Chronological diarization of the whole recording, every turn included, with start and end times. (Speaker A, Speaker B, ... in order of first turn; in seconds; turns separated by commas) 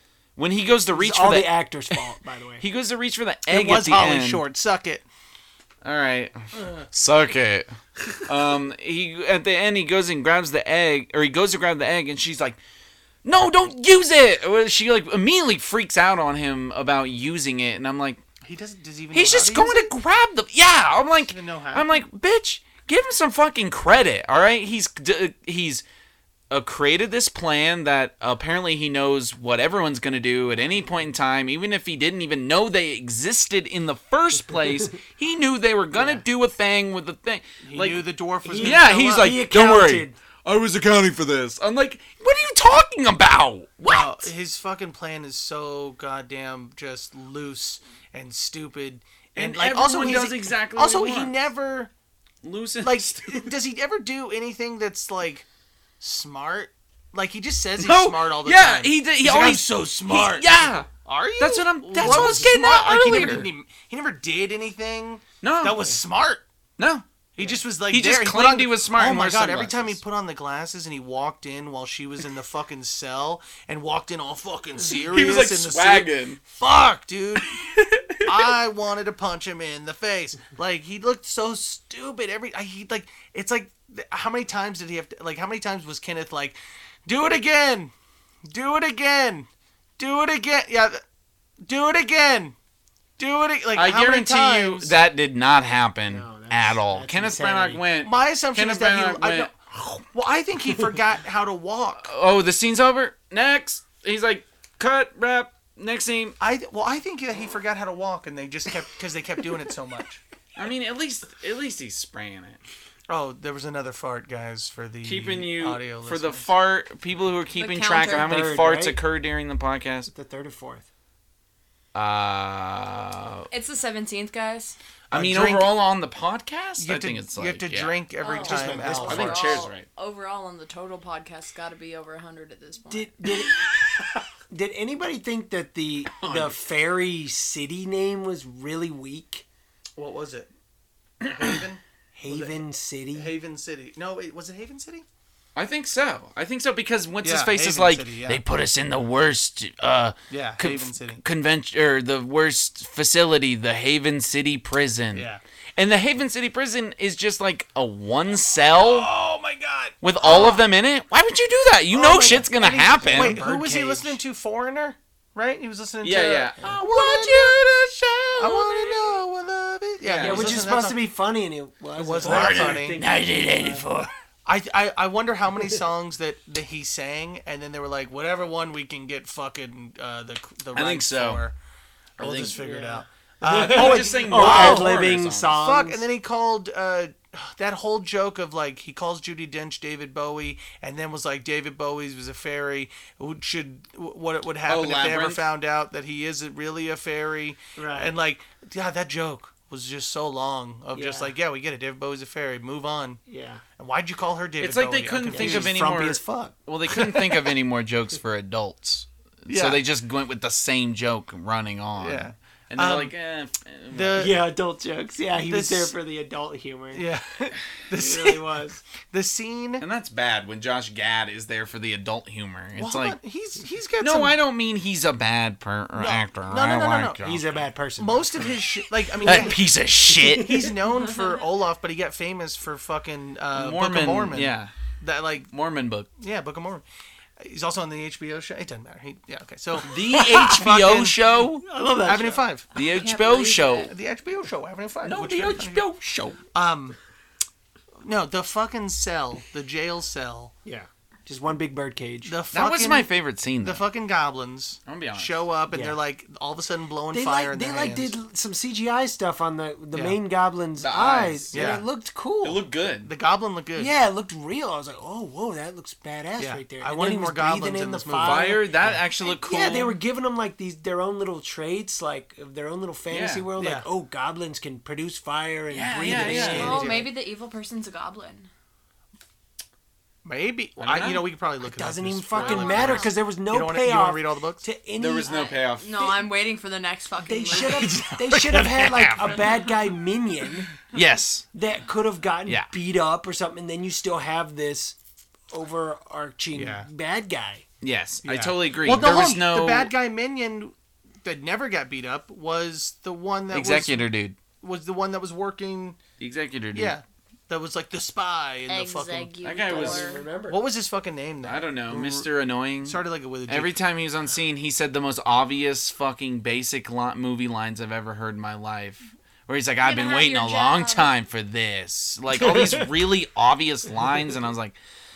Speaker A: 0.4-2.0, Speaker B: 0.9-2.6, Speaker A: 2.6-4.4, Speaker C: 3.5-5.0, Speaker A: 5.8-7.7, Speaker C: 6.5-6.9, Speaker A: 8.2-12.6, Speaker A: 13.2-18.2, Speaker C: 18.4-19.9, Speaker A: 19.1-25.8, Speaker C: 21.3-21.9, Speaker A: 26.5-38.1, Speaker C: 37.6-39.3, Speaker B: 38.5-40.2, Speaker A: 38.6-44.3, Speaker C: 43.8-51.9, Speaker A: 49.4-51.3, Speaker A: 52.4-53.5, Speaker C: 52.8-55.5, Speaker C: 56.0-66.5, Speaker A: 57.8-63.5, Speaker B: 62.0-62.5, Speaker A: 65.4-66.0, Speaker A: 66.8-70.0, Speaker C: 67.4-77.5, Speaker A: 74.8-76.4, Speaker A: 77.4-78.5, Speaker C: 78.2-87.9, Speaker C: 88.5-91.0, Speaker C: 91.6-92.5, Speaker C: 93.2-95.0, Speaker A: 93.7-100.0, Speaker B: 96.1-97.8, Speaker C: 98.0-99.5, Speaker C: 100.1-102.1, Speaker A: 102.0-106.4, Speaker C: 106.4-110.2, Speaker A: 110.5-112.6, Speaker C: 113.1-116.5, Speaker A: 115.0-120.1, Speaker D: 117.5-118.5, Speaker B: 118.1-119.0, Speaker B: 120.1-120.9, Speaker A: 121.9-123.5, Speaker D: 123.5-124.8, Speaker C: 125.1-125.8, Speaker A: 125.1-128.0, Speaker C: 126.8-129.6, Speaker D: 128.2-133.2, Speaker B: 128.3-129.5, Speaker A: 129.0-129.9, Speaker B: 132.9-139.4, Speaker A: 133.3-134.0, Speaker A: 136.1-136.6, Speaker C: 140.0-140.5, Speaker A: 141.2-141.6, Speaker C: 141.2-145.1, Speaker B: 142.1-143.3, Speaker A: 145.6-159.1, Speaker C: 147.2-148.4, Speaker C: 150.3-151.2, Speaker C: 155.1-155.4, Speaker C: 158.7-160.6, Speaker A: 160.0-163.4, Speaker C: 161.9-167.6, Speaker B: 162.9-164.2, Speaker A: 166.0-168.8, Speaker C: 168.4-171.0, Speaker D: 168.8-169.1, Speaker A: 170.0-170.7, Speaker B: 170.2-173.9, Speaker C: 171.9-173.0, Speaker A: 172.2-174.1, Speaker C: 174.4-181.6, Speaker A: 180.7-181.4, Speaker C: 182.2-203.2, Speaker A: 182.2-182.6, Speaker B: 182.2-186.1, Speaker A: 183.5-185.6, Speaker A: 194.7-195.4, Speaker B: 197.8-198.2, Speaker B: 200.9-201.3, Speaker B: 203.3-203.6, Speaker C: 203.8-205.9, Speaker A: 204.6-214.3, Speaker B: 205.3-206.5, Speaker C: 206.9-207.4, Speaker C: 209.5-209.8, Speaker C: 212.0-213.1, Speaker C: 213.9-214.4, Speaker B: 214.2-217.1, Speaker C: 215.5-215.9, Speaker C: 216.9-219.8, Speaker B: 217.9-218.8, Speaker A: 219.8-223.2, Speaker C: 222.8-224.4, Speaker A: 224.0-227.6, Speaker C: 225.9-227.2, Speaker B: 227.2-228.6, Speaker C: 228.0-235.5, Speaker A: 229.2-230.6, Speaker B: 229.3-229.5, Speaker B: 230.1-230.7, Speaker A: 233.5-234.7, Speaker A: 235.5-236.1, Speaker C: 236.2-236.8, Speaker C: 237.4-241.2, Speaker A: 239.8-241.6, Speaker B: 240.0-240.6, Speaker B: 241.6-242.4, Speaker C: 242.0-242.7, Speaker D: 242.7-243.9, Speaker A: 242.7-243.9, Speaker C: 243.9-245.8, Speaker A: 245.0-246.4, Speaker C: 246.5-247.0, Speaker C: 248.0-250.5, Speaker B: 250.6-252.3, Speaker C: 252.2-253.1, Speaker A: 252.5-253.9, Speaker C: 253.6-258.2, Speaker A: 254.9-255.4, Speaker B: 255.7-256.0, Speaker B: 257.1-262.6, Speaker A: 260.8-261.8, Speaker C: 261.5-261.8, Speaker A: 262.4-263.1, Speaker C: 263.0-263.9, Speaker B: 263.8-277.1, Speaker C: 266.4-268.6, Speaker A: 268.2-270.0, Speaker A: 273.1-273.5, Speaker C: 273.6-273.9, Speaker A: 275.7-276.8, Speaker C: 276.1-277.1, Speaker D: 276.3-278.5, Speaker C: 280.2-284.6, Speaker A: 280.8-281.3, Speaker B: 281.6-286.2, Speaker D: 282.4-283.1, Speaker A: 282.4-283.0, Speaker A: 285.0-286.1, Speaker D: 285.2-287.9, Speaker B: 287.2-290.7, Speaker C: 287.5-289.4, Speaker D: 289.2-289.7, Speaker A: 290.9-291.4, Speaker B: 291.5-294.9, Speaker A: 292.4-292.7, Speaker B: 295.5-297.6, Speaker C: 296.5-296.9, Speaker A: 297.8-299.9, Speaker C: 298.2-304.1, Speaker A: 303.5-304.4, Speaker C: 304.6-306.0, Speaker A: 306.2-306.9, Speaker C: 306.7-309.4, Speaker D: 308.7-310.3, Speaker A: 309.4-310.2, Speaker B: 309.7-310.6, Speaker C: 310.4-312.3, Speaker A: 311.4-324.8, Speaker C: 312.9-313.8, Speaker D: 319.8-321.1, Speaker B: 322.3-322.9